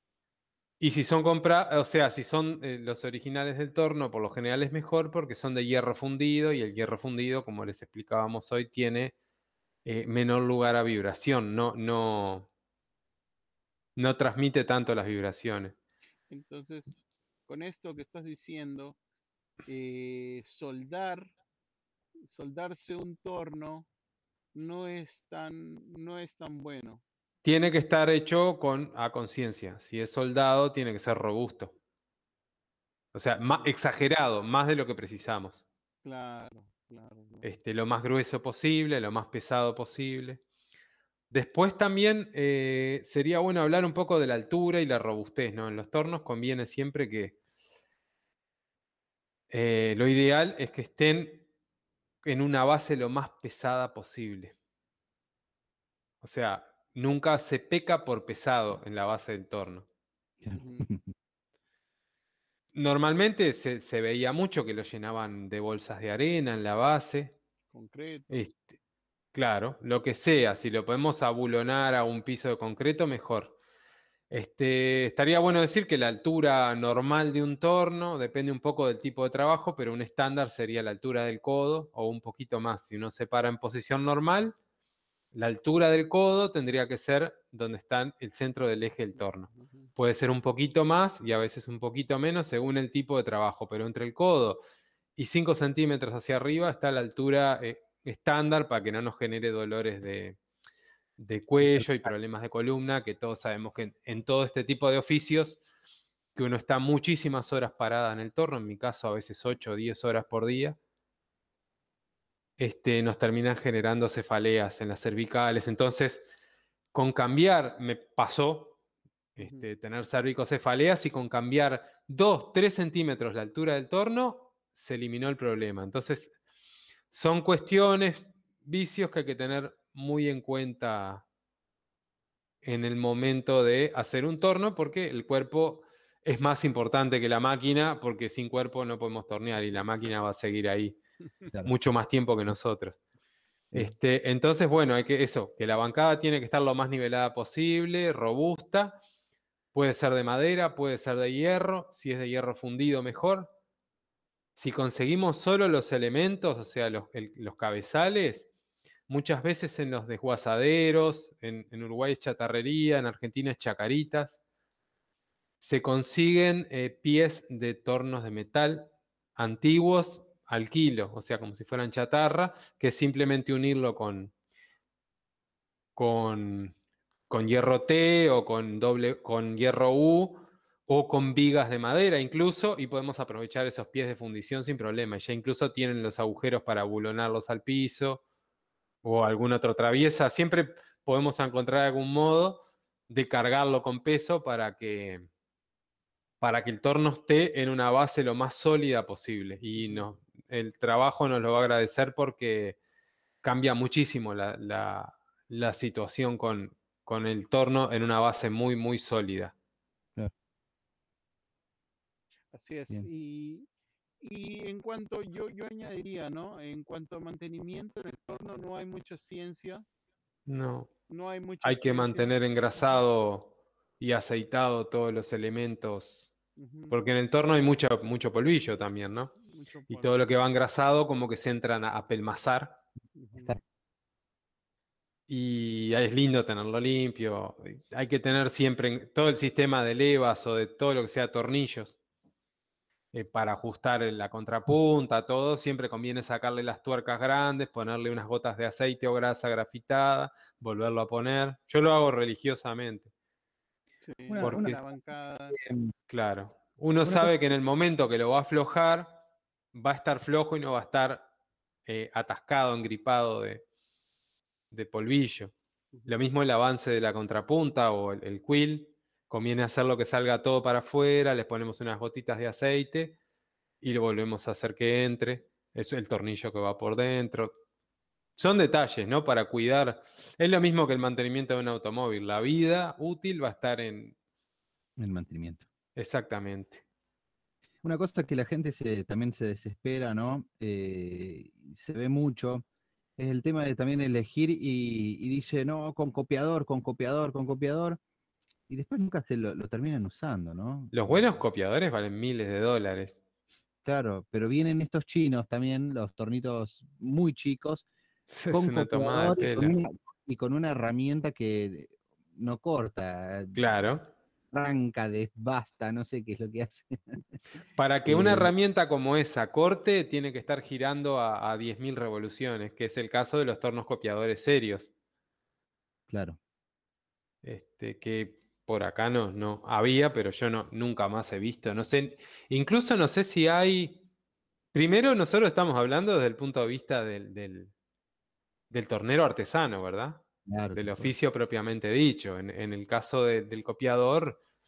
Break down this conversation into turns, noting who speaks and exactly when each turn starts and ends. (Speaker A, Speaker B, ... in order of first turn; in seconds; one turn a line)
Speaker A: 0.8-9.2
Speaker A: 9.8-12.5
Speaker A: 14.0-15.8
Speaker B: 16.3-16.9
Speaker B: 17.5-19.0
Speaker B: 19.7-21.3
Speaker B: 22.2-23.9
Speaker B: 24.5-27.0
Speaker A: 27.4-31.7
Speaker A: 33.1-35.6
Speaker B: 33.4-33.8
Speaker B: 36.0-37.5
Speaker A: 37.4-40.4
Speaker A: 41.3-47.4
Speaker A: 49.5-51.5
Speaker A: 52.2-54.5
Speaker A: 56.2-59.9
Speaker C: 60.4-61.1
Speaker B: 60.5-60.9
Speaker A: 62.7-67.4
Speaker B: 67.7-68.3
Speaker A: 68.3-68.6
Speaker A: 69.3-73.6
Speaker A: 74.3-84.5
Speaker A: 85.3-94.6
Speaker B: 89.2-89.9
Speaker A: 95.2-100.4
Speaker A: 101.2-105.6
Speaker C: 101.6-102.1
Speaker A: 106.3-110.8
Speaker A: 112.6-116.2
Speaker A: 116.9-118.8
Speaker B: 119.4-119.7
Speaker A: 119.4-126.3
Speaker A: 127.1-131.2
Speaker A: 132.6-141.0
Speaker B: 139.8-140.0
Speaker A: 141.6-143.0
Speaker A: 143.7-149.0
Speaker A: 149.7-153.5
Speaker A: 154.6-158.5
Speaker A: 159.1-164.4
Speaker A: 165.6-174.3
Speaker A: 176.0-176.7
Speaker A: 177.3-188.2
Speaker A: 189.0-195.3
Speaker A: 196.4-202.8
Speaker B: 199.8-200.1
Speaker A: 203.4-209.5
Speaker B: 212.5-213.7
Speaker B: 214.2-219.8
Speaker A: 220.5-220.9
Speaker B: 221.1-222.3
Speaker A: 221.6-226.3
Speaker B: 226.6-227.0
Speaker A: 226.9-229.3
Speaker B: 229.4-230.2
Speaker A: 229.9-232.8
Speaker B: 233.2-233.6
Speaker C: 233.3-233.6
Speaker A: 235.3-242.0
Speaker A: 243.1-253.1
Speaker B: 254.0-255.6
Speaker C: 254.3-254.8
Speaker A: 254.4-254.8
Speaker C: 255.5-255.9
Speaker A: 256.1-259.2
Speaker C: 257.1-257.3
Speaker A: 259.7-261.3
Speaker A: 261.9-263.6
Speaker A: 264.7-265.5
Speaker A: 266.1-273.2
Speaker A: 273.8-277.5
Speaker A: 278.4-284.1
Speaker C: 285.0-285.6
Speaker A: 286.0-286.8
Speaker C: 287.8-292.6
Speaker C: 293.2-298.0
Speaker C: 298.7-301.4
Speaker A: 300.9-303.2
Speaker C: 303.9-307.9
Speaker A: 308.3-309.8
Speaker C: 308.5-313.6
Speaker A: 313.6-314.1
Speaker C: 314.5-317.2
Speaker A: 317.8-324.9
Speaker C: 318.1-318.5
Speaker C: 326.1-326.4
Speaker A: 327.4-334.0
Speaker A: 334.7-337.7
Speaker A: 338.7-340.2
Speaker C: 340.5-341.1
Speaker A: 340.8-344.4